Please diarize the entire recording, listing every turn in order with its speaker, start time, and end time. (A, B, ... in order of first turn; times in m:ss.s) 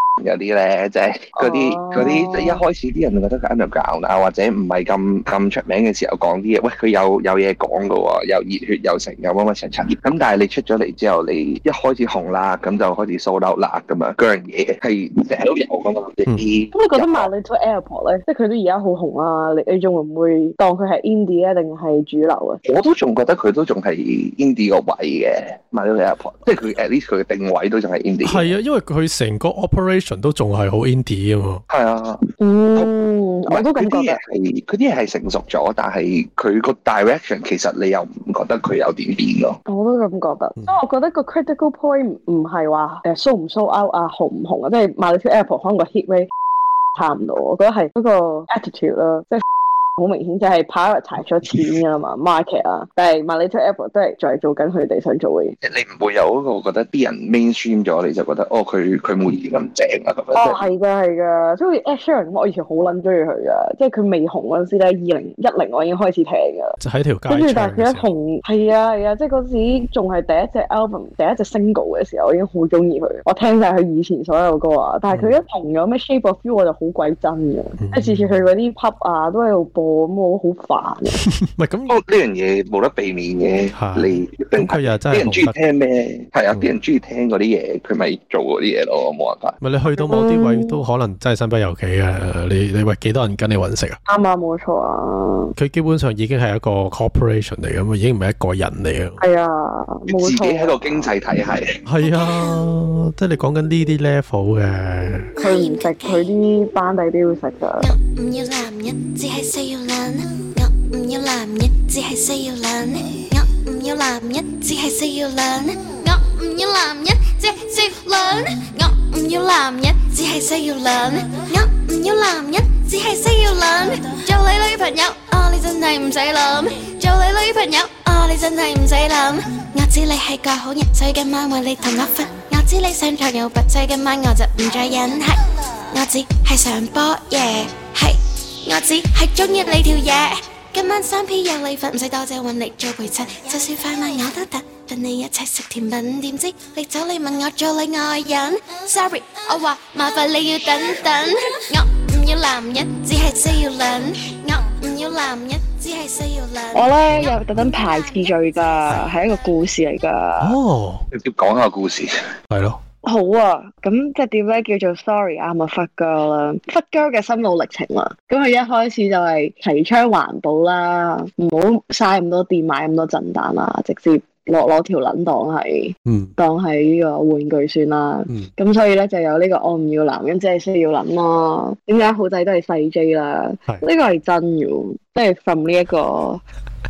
0:00.2-0:17.3 A
0:01.4-0:02.6 B
0:16.7-0:22.6 B
0:22.6-0:28.5 A
0:28.2-0:31.6 C
0:31.7-0:32.9 A
0:32.4-0:34.2 B
0:33.5-0:39.6 A
0:39.6-0:46.3 B
0:46.9-0:49.4 B
0:50.0-0:55.6 B
0:55.6-1:00.6 A
1:00.3-1:06.8 B
1:06.8-1:08.0 C
1:07.3-1:21.2 B
1:15.1-1:15.4 C
1:17.8-1:18.5 C
1:21.2-1:22.0 C
1:21.9-1:29.6 A
1:23.7-1:25.6 C
1:29.6-1:34.0 C
1:29.9-1:30.8 B
1:34.1-1:35.5 B
1:35.6-1:39.2 C
1:39.2-1:41.1 B
1:40.1-1:41.8 A
1:41.8-1:45.3 C
1:42.0-1:42.6 D
1:45.4-1:46.2 D
1:45.4-1:47.9 B
1:47.8-2:38.9 D
2:36.7-2:40.6 B
2:37.1-2:37.7 C
2:40.4-2:41.0 C
2:41.1-2:42.1 A
2:42.5-2:42.8 C
2:43.0-3:06.4 B
2:56.0-2:56.3 C